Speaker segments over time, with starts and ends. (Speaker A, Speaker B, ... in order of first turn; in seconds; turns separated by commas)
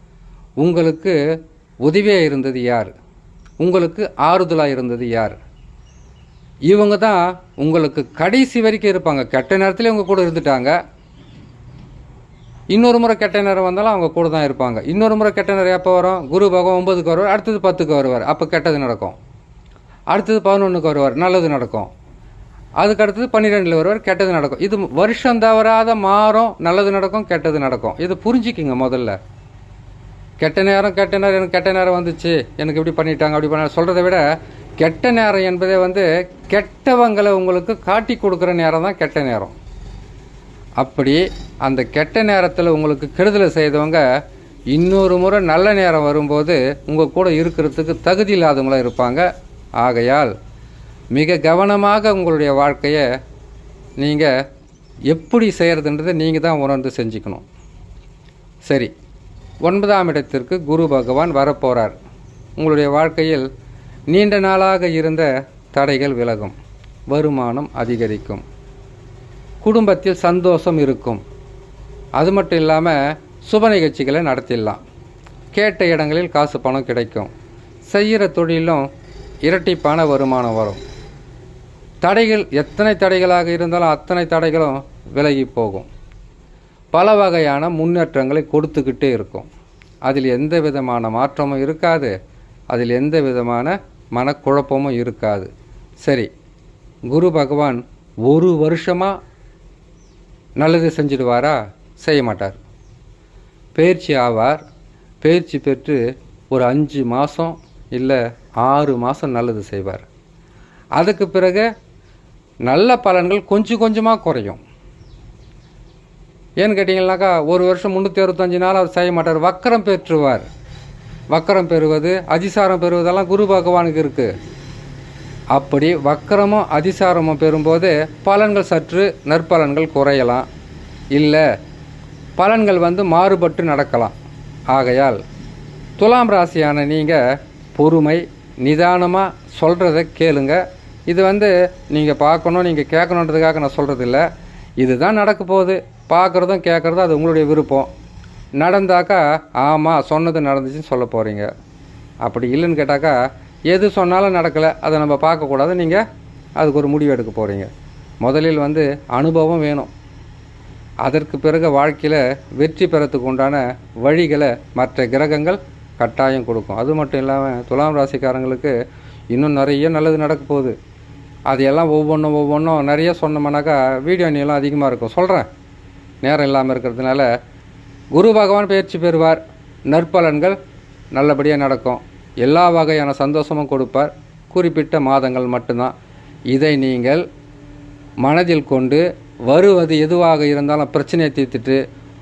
Speaker A: 0.6-1.2, Speaker A: 1.8-2.9, Speaker A: 3.6-5.4, Speaker A: 6.7-10.7, Speaker A: 12.7-19.2, Speaker A: 20.1-21.9, Speaker A: 22.8-29.2, Speaker A: 30.4-34.2, Speaker A: 34.8-39.5, Speaker A: 40.8-44.0, Speaker A: 44.7-49.2, Speaker A: 49.8-50.3, Speaker A: 51.1-53.0, Speaker A: 54.0-54.3, Speaker A: 55.1-57.4, Speaker A: 58.6-58.9, Speaker A: 59.6-62.0, Speaker A: 62.6-63.5, Speaker A: 64.1-66.5, Speaker A: 67.1-68.4, Speaker A: 69.6-71.2, Speaker A: 72.2-74.8, Speaker A: 75.5-77.3, Speaker A: 77.9-78.8, Speaker A: 79.4-80.8, Speaker A: 82.0-85.9, Speaker A: 86.9-89.5, Speaker A: 90.0-92.1, Speaker A: 92.7-95.5, Speaker A: 96.0-96.3, Speaker A: 97.1-99.2, Speaker A: 100.6-102.6, Speaker A: 103.7-104.6, Speaker A: 105.2-106.0, Speaker A: 106.5-110.0, Speaker A: 111.0-111.7, Speaker A: 112.7-114.6, Speaker A: 116.6-120.5, Speaker A: 121.3-124.3, Speaker A: 125.5-130.4, Speaker A: 131.1-131.4, Speaker A: 132.4-134.1, Speaker A: 134.7-135.2, Speaker A: 136.0-137.2, Speaker A: 137.7-144.2, Speaker A: 144.8-147.9, Speaker A: 148.6-151.5, Speaker A: 152.2-153.2, Speaker A: 153.7-156.0, Speaker A: 156.6-157.7, Speaker A: 158.2-159.9, Speaker A: 161.0-168.7, Speaker A: 169.3-170.7, Speaker A: 171.5-175.5, Speaker A: 176.2-177.3, Speaker A: 178.1-180.6, Speaker A: 181.1-185.9, Speaker A: 186.5-187.2, Speaker A: 188.2-191.8